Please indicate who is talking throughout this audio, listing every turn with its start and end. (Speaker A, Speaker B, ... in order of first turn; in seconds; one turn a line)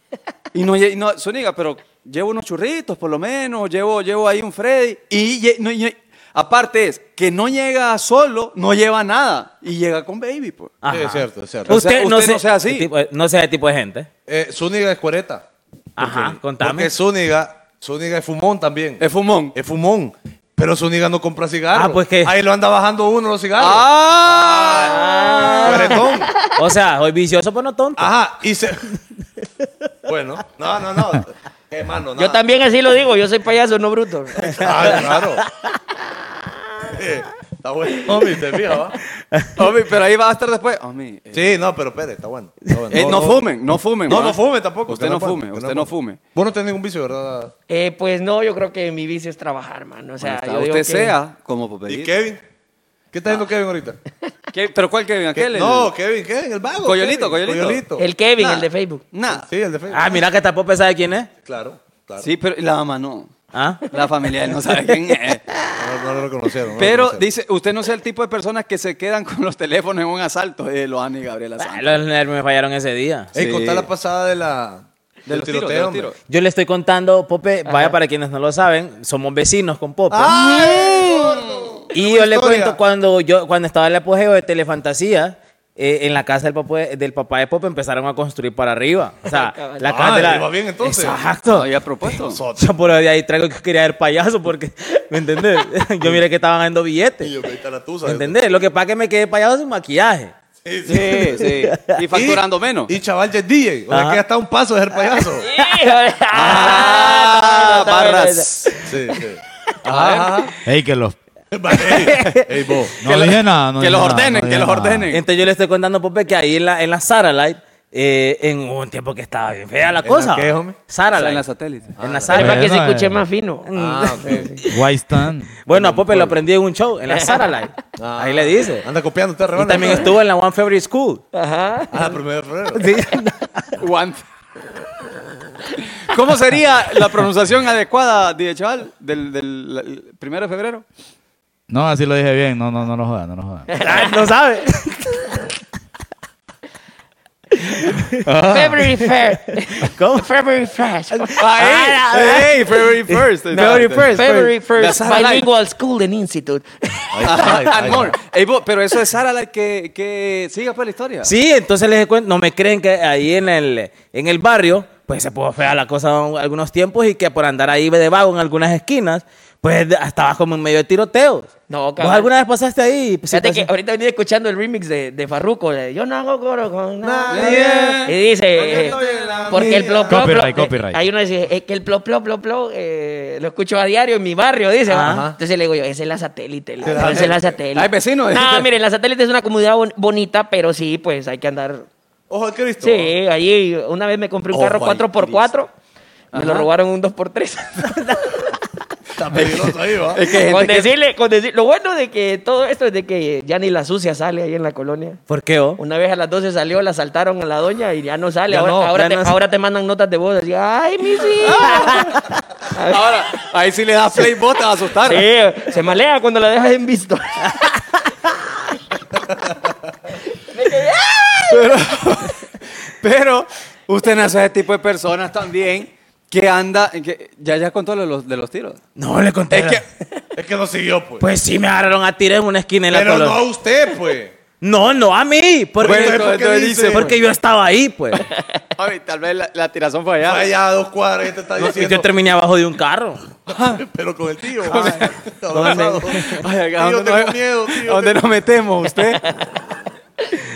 Speaker A: 0.5-10.7
Speaker B: 10.8-14.1
Speaker C: 10.9-11.8
Speaker A: 11.7-12.9
Speaker C: 14.3-15.4
Speaker B: 16.0-16.9
Speaker C: 16.0-25.1
Speaker A: 19.0-19.6
Speaker B: 21.7-22.3
Speaker A: 23.6-25.9
Speaker D: 24.8-26.6
Speaker C: 25.6-26.3
Speaker B: 26.6-28.1
Speaker C: 28.0-28.9
Speaker C: 30.1-32.4
Speaker D: 32.2-35.0
Speaker C: 34.5-35.4
Speaker C: 36.9-39.0
Speaker A: 39.6-41.5
Speaker C: 41.3-43.5
Speaker A: 42.9-46.2
Speaker C: 44.0-47.5
Speaker D: 47.7-51.2
Speaker A: 50.2-52.1
Speaker C: 51.9-52.4
Speaker C: 53.1-54.0
Speaker A: 54.5-55.9
Speaker C: 55.3-58.0
Speaker A: 56.8-57.8
Speaker D: 58.0-59.0
Speaker A: 58.4-59.5
Speaker C: 59.3-60.2
Speaker B: 59.9-61.3
Speaker C: 61.4-62.3
Speaker A: 62.2-63.3
Speaker B: 63.5-63.9
Speaker A: 63.9-65.4
Speaker C: 65.8-67.3
Speaker A: 66.8-72.0
Speaker B: 71.6-73.3
Speaker C: 73.3-76.1
Speaker A: 73.3-73.9
Speaker A: 75.3-76.2
Speaker B: 76.3-80.3
Speaker D: 77.7-77.9
Speaker C: 80.1-82.8
Speaker A: 80.3-81.8
Speaker B: 81.9-91.7
Speaker D: 89.3-90.1
Speaker C: 89.9-91.2
Speaker A: 91.5-92.4
Speaker C: 92.2-92.7
Speaker B: 92.5-97.3
Speaker C: 97.2-98.3
Speaker B: 98.0-100.3
Speaker C: 100.6-101.4
Speaker A: 100.8-102.9
Speaker B: 101.7-101.9
Speaker C: 102.1-105.5
Speaker B: 103.9-104.2
Speaker D: 105.4-108.9
Speaker A: 106.3-108.8
Speaker C: 108.8-110.5
Speaker A: 109.9-110.5
Speaker E: 110.6-111.2
Speaker C: 111.5-113.0
Speaker B: 111.8-112.5
Speaker E: 113.0-115.1
Speaker A: 113.0-115.2
Speaker B: 115.1-121.5
Speaker C: 120.0-120.8
Speaker A: 121.1-121.9
Speaker C: 122.0-122.4
Speaker B: 122.0-122.7
Speaker D: 122.3-124.6
Speaker E: 122.3-123.2
Speaker B: 123.7-124.7
Speaker C: 123.7-124.5
Speaker E: 124.7-125.6
Speaker B: 125.6-128.8
Speaker C: 125.7-126.4
Speaker D: 127.1-127.5
Speaker C: 128.0-130.1
Speaker B: 129.6-131.2
Speaker D: 131.3-132.2
Speaker C: 131.9-132.9
Speaker B: 132.7-133.8
Speaker A: 133.8-134.2
Speaker A: 136.0-140.8
Speaker E: 141.7-143.8
Speaker D: 143.7-144.3
Speaker B: 143.8-145.1
Speaker D: 147.5-147.9
Speaker B: 147.8-148.2
Speaker E: 148.2-148.8
Speaker D: 148.5-151.4
Speaker B: 149.7-150.2
Speaker B: 151.2-152.6
Speaker A: 151.3-155.5
Speaker B: 153.1-154.5
Speaker D: 153.5-157.7
Speaker C: 157.1-158.1
Speaker A: 157.2-161.3
Speaker B: 161.2-173.7
Speaker D: 171.7-172.3
Speaker D: 173.3-179.0
Speaker C: 177.0-180.2
Speaker A: 177.3-179.7
Speaker D: 179.5-191.9
Speaker E: 180.1-181.0
Speaker B: 184.9-185.2
Speaker C: 185.0-185.4
Speaker C: 186.8-187.5
Speaker A: 186.9-188.7
Speaker C: 192.3-193.1
Speaker D: 192.8-195.7
Speaker C: 194.5-195.1
Speaker A: 196.3-196.7
Speaker D: 196.3-198.5
Speaker C: 199.2-200.2
Speaker A: 199.3-200.9
Speaker D: 200.3-205.2
Speaker B: 205.3-205.8
Speaker D: 205.8-212.0
Speaker C: 208.5-208.9
Speaker B: 208.9-209.3
Speaker A: 211.4-212.2
Speaker D: 212.7-213.1
Speaker A: 212.9-215.2
Speaker D: 215.0-217.7
Speaker D: 220.3-221.8
Speaker A: 221.5-228.8
Speaker B: 228.9-229.8
Speaker A: 229.5-229.8
Speaker C: 230.3-231.2
Speaker B: 231.2-233.4
Speaker C: 232.9-234.4
Speaker B: 234.6-236.4
Speaker C: 235.8-237.1
Speaker A: 235.8-237.2
Speaker B: 236.9-238.3
Speaker A: 238.8-240.5
Speaker C: 240.2-242.1
Speaker B: 241.6-243.2
Speaker C: 243.5-248.2
Speaker A: 243.5-243.8
Speaker A: 244.7-249.3
Speaker D: 245.5-246.0